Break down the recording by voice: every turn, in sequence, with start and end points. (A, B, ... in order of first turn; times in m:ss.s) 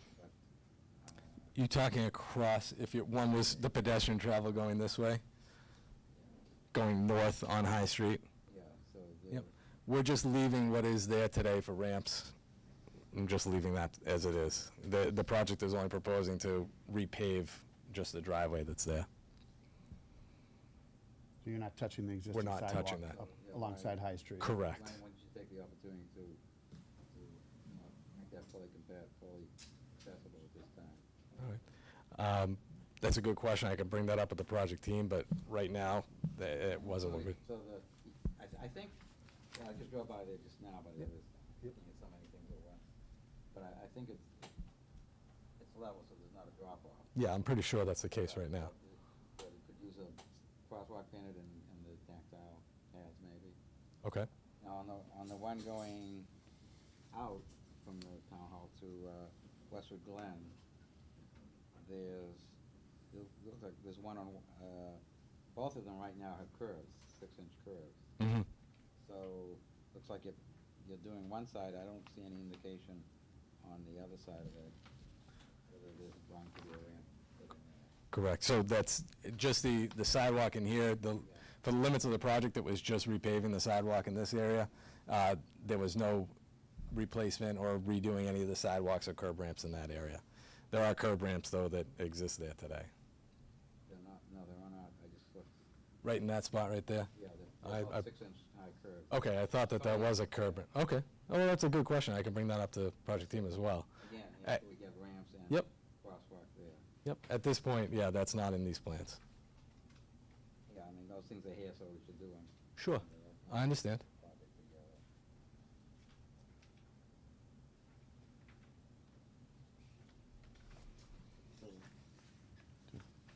0:00.1-0:00.4 A
0:01.0-0:01.6 A
0:01.6-0:05.2 B
0:06.7-0:08.2 B
0:08.5-0:09.5 A
0:09.3-0:12.3 B
0:13.1-0:19.1 B
0:21.4-0:24.5 C
0:22.3-0:23.2 B
0:23.2-0:24.0 A
0:24.4-0:25.0 B
0:24.6-0:26.4 A
0:27.1-0:31.0 A
0:32.1-0:37.3 B
0:36.7-0:39.0 A
0:39.5-0:42.8 A
0:43.5-0:44.4 A
0:45.6-0:47.1 A
0:47.1-0:48.7 B
0:48.2-0:53.6 A
0:54.6-0:56.3 A
0:57.1-1:00.6 A
1:01.8-1:02.6 A
1:03.1-1:05.0 A
1:05.5-1:08.0 A
1:08.2-1:08.4 B
1:09.0-1:13.1 A
1:13.6-1:14.8 A
1:15.7-1:17.9 A
1:18.1-1:26.3 B
1:21.2-1:21.4 A
1:26.9-1:32.9 B
1:33.9-1:35.5 A
1:36.0-1:37.1 B
1:37.1-1:40.6 A
1:37.6-1:38.0 B
1:39.1-1:43.9 B
1:44.0-1:46.9 A
1:47.0-1:49.2 B
1:50.7-1:55.0 A
1:52.8-1:54.0 B
2:01.6-2:01.9 A